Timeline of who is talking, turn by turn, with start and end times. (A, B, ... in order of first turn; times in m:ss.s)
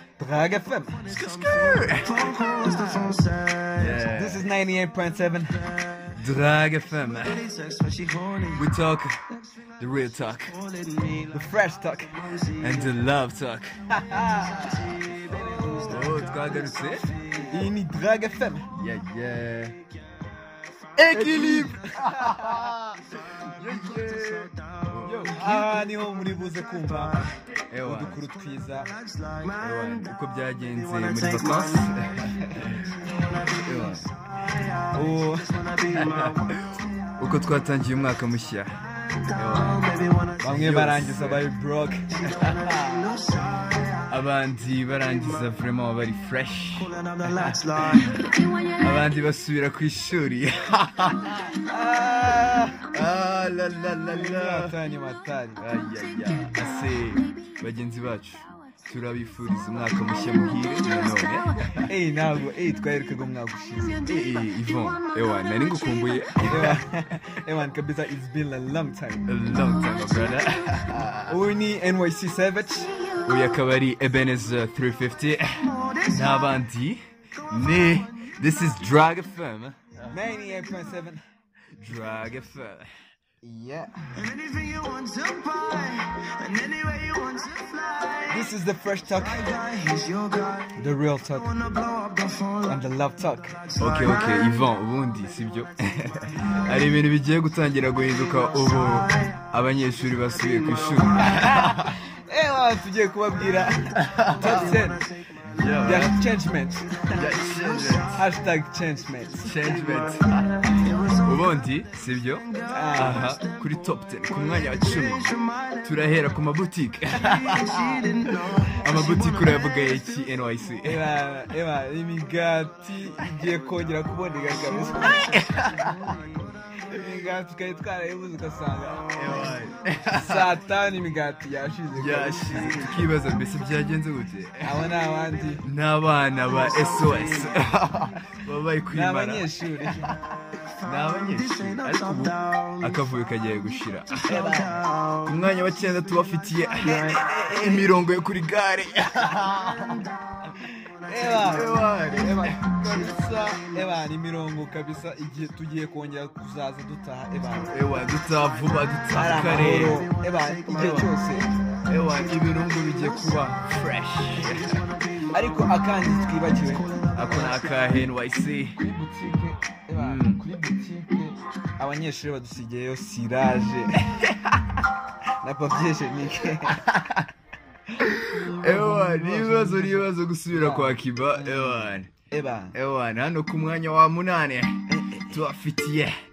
0:00.2-0:01.1 A
0:01.1-0:04.0 B
0:01.1-0:02.3 C
0:03.8-0:04.5 C
0:04.1-0:06.0 A
0:06.2-0:07.5 C
0:07.2-0:08.7 B
0:08.5-0:09.2 C
0:09.8-0:10.6 C
0:10.5-0:11.4 B
0:11.3-0:12.5 A
0:12.3-0:12.9 B
0:12.6-0:13.9 C
0:13.9-0:16.1 A
0:14.3-0:17.5 B
0:15.9-0:17.1 C
0:17.4-0:18.7 A
0:18.7-0:19.8 C
0:21.0-0:25.7 C
0:21.2-0:22.7 A
0:21.3-0:21.7 B
0:23.6-0:26.0 B
0:25.2-0:28.9 A
0:26.8-0:27.3 B
0:27.7-0:28.2 C
0:28.8-0:30.1 B
0:29.6-0:34.1 C
0:30.7-0:32.0 B
0:32.6-0:36.6 B
0:34.8-0:35.8 A
0:35.9-0:38.7 C
0:39.2-0:41.4 C
0:39.3-0:40.4 B
0:40.4-0:42.3 A
0:42.2-0:44.1 B
0:42.3-0:42.7 C
0:44.1-0:51.6 C
0:46.8-0:48.2 B
0:51.5-0:52.9 A
0:52.9-0:54.7 C
0:54.1-0:55.6 A
0:55.6-1:01.9 C
1:01.9-1:04.1 A
1:04.0-1:06.8 C
1:06.4-1:09.3 A
1:09.3-1:11.4 C
1:11.3-1:13.1 A
1:13.2-1:20.2 C
1:15.6-1:16.3 B
1:17.4-1:18.4 B
1:20.1-1:21.2 A
1:21.8-1:22.9 C
1:23.4-1:24.3 A
1:24.2-1:28.4 B
1:28.3-1:29.6 A
1:29.2-1:30.8 B
1:30.8-1:31.5 A
1:31.5-1:32.8 B
1:32.6-1:33.7 A
1:33.6-1:34.6 B
1:33.8-1:41.9 C
1:40.6-1:41.3 B
1:41.2-1:45.1 A
1:44.0-1:44.8 C
1:44.4-1:45.0 B
1:45.5-1:46.2 C
1:45.8-1:47.3 A
1:47.1-1:48.2 C
1:47.2-1:48.0 B
1:48.0-1:49.6 A
1:49.4-2:01.1 C
1:49.8-1:51.5 B
1:52.5-1:53.6 B
1:52.7-1:53.4 A
1:54.4-1:56.0 B
1:57.2-1:59.9 B
2:00.8-2:05.4 A
2:04.8-2:06.5 B
2:05.0-2:06.2 C
2:06.8-2:09.4 A
2:09.1-2:10.5 C
2:10.1-2:13.0 A
2:11.9-2:14.8 C
2:14.6-2:15.6 A
2:15.6-2:24.4 C
2:16.7-2:17.6 B
2:18.9-2:20.1 A
2:20.6-2:23.0 B
2:24.3-2:24.8 A
2:24.3-2:26.0 B
2:25.2-2:30.1 C
2:26.5-2:27.6 B
2:27.0-2:27.9 A
2:29.5-2:30.2 B
2:30.6-2:37.8 A
2:30.9-2:31.7 B
2:31.5-2:32.6 C
2:32.8-2:33.8 B
2:37.7-2:40.1 C
2:39.1-2:41.5 A
2:39.8-2:41.5 B
2:41.9-2:44.9 C
2:44.4-2:45.4 B
2:45.3-2:47.0 A
2:46.6-2:47.9 B
2:47.1-2:48.8 C
2:48.8-2:54.1 A
2:49.9-2:50.4 C
2:54.1-2:54.6 C
2:55.4-2:56.9 A
2:56.8-2:57.2 C
2:58.0-3:02.1 C
2:58.3-3:02.8 A
3:02.7-3:06.2 C
3:04.9-3:05.4 A